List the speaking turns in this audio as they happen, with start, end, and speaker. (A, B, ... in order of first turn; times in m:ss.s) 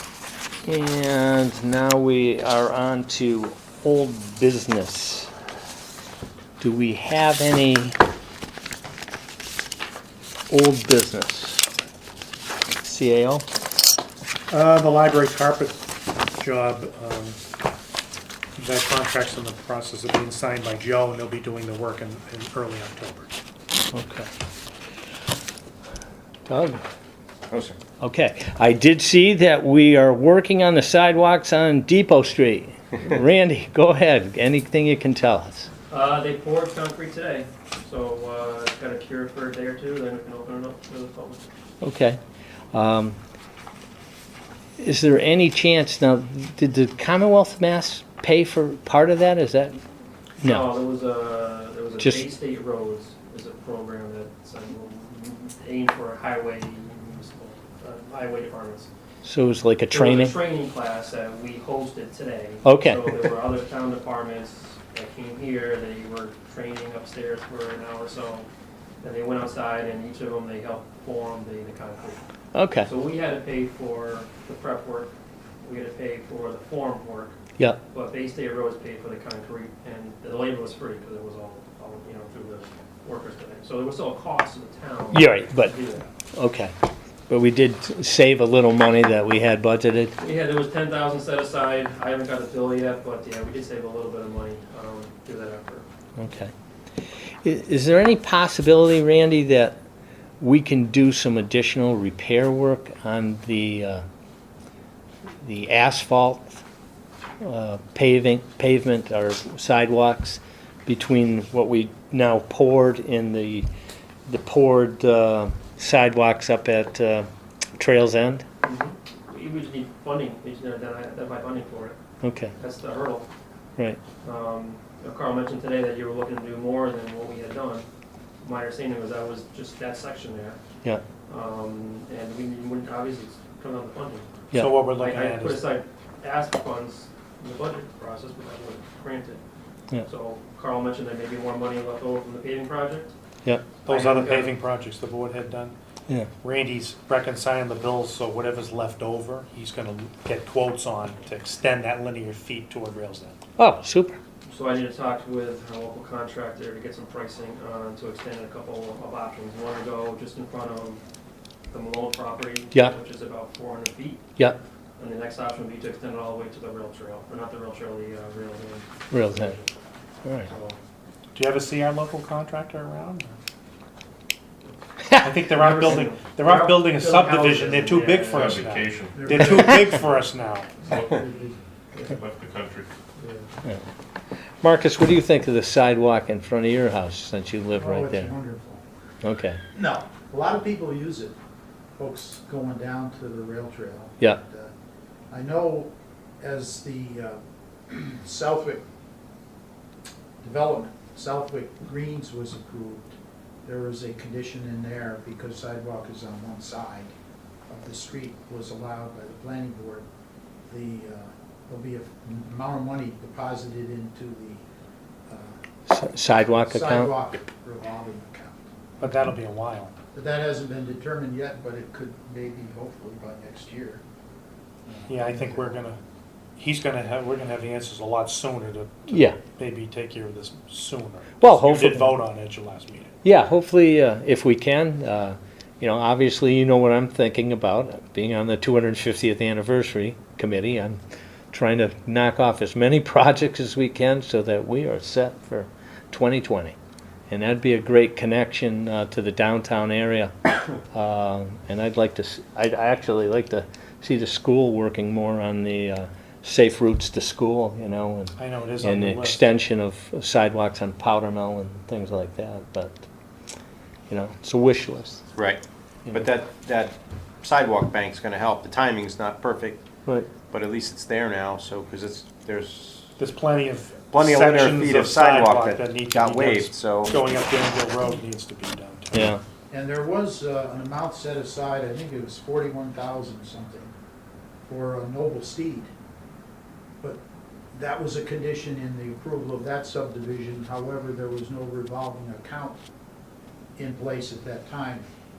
0:00.6-0:05.3 A
0:06.6-0:08.0 A
0:10.5-0:11.7 A
0:12.8-0:13.4 A
0:14.5-0:17.4 B
0:18.6-0:23.3 B
0:23.9-0:24.3 A
0:26.5-0:26.8 A
0:28.0-0:35.7 A
0:35.9-0:41.4 C
0:41.8-0:42.2 A
0:42.7-0:43.2 A
0:44.8-0:49.8 A
0:50.4-0:50.7 A
0:50.4-0:58.9 C
0:59.2-1:00.4 A
0:59.9-1:08.5 C
1:02.6-1:03.2 A
1:09.0-1:12.2 C
1:12.5-1:12.9 A
1:12.8-1:17.4 C
1:17.9-1:26.1 C
1:25.1-1:25.8 A
1:26.3-1:26.7 A
1:27.3-1:30.2 A
1:30.2-1:35.9 C
1:36.2-1:36.5 A
1:37.4-1:39.8 A
1:40.4-1:44.0 A
1:45.4-1:46.6 A
1:47.4-1:53.7 A
1:54.3-1:58.4 A
1:58.6-2:02.0 C
2:02.2-2:02.6 A
2:02.6-2:03.3 C
2:04.2-2:07.8 C
2:08.4-2:10.6 C
2:11.3-2:19.4 C
2:14.6-2:15.6 B
2:20.0-2:23.1 C
2:23.8-2:25.8 B
2:23.9-2:24.5 C
2:26.4-2:33.4 B
2:33.6-2:34.2 A
2:34.5-2:41.0 C
2:41.7-2:44.2 C
2:45.0-2:49.7 C
2:49.1-2:49.6 A
2:50.4-2:50.8 C
2:51.3-2:53.4 B
2:55.0-2:55.3 A
2:55.2-3:00.9 B
2:55.4-2:58.8 C
2:58.3-2:59.4 D
2:59.1-3:00.0 E
3:00.8-3:01.6 E
3:02.0-3:02.9 D
3:03.2-3:03.5 C
3:04.6-3:08.3 A
3:07.8-3:08.8 E
3:09.2-3:09.6 A
3:09.7-3:11.4 E
3:12.0-3:14.7 E
3:15.3-3:18.8 E
3:20.4-3:27.1 E
3:27.7-3:30.0 E
3:30.7-3:34.6 E
3:35.3-3:35.6 E
3:35.9-3:37.1 A
3:36.3-3:38.6 E
3:39.0-3:39.9 B
3:40.1-3:44.0 E
3:44.8-3:45.7 E
3:45.1-3:46.0 B
3:46.6-3:53.1 B
3:49.1-3:49.4 A
3:51.4-3:52.2 A
3:53.2-4:01.0 A
4:01.5-4:06.8 A
4:07.3-4:10.3 A
4:10.9-4:23.1 A
4:18.4-4:19.5 B
4:24.1-4:25.2 A
4:25.4-4:29.8 F
4:30.5-4:33.1 F
4:33.2-4:39.4 B
4:34.1-4:37.2 F
4:39.1-4:39.4 A
4:39.7-4:43.9 E
4:44.7-4:45.9 E
4:47.7-4:52.8 E
4:53.8-4:55.1 E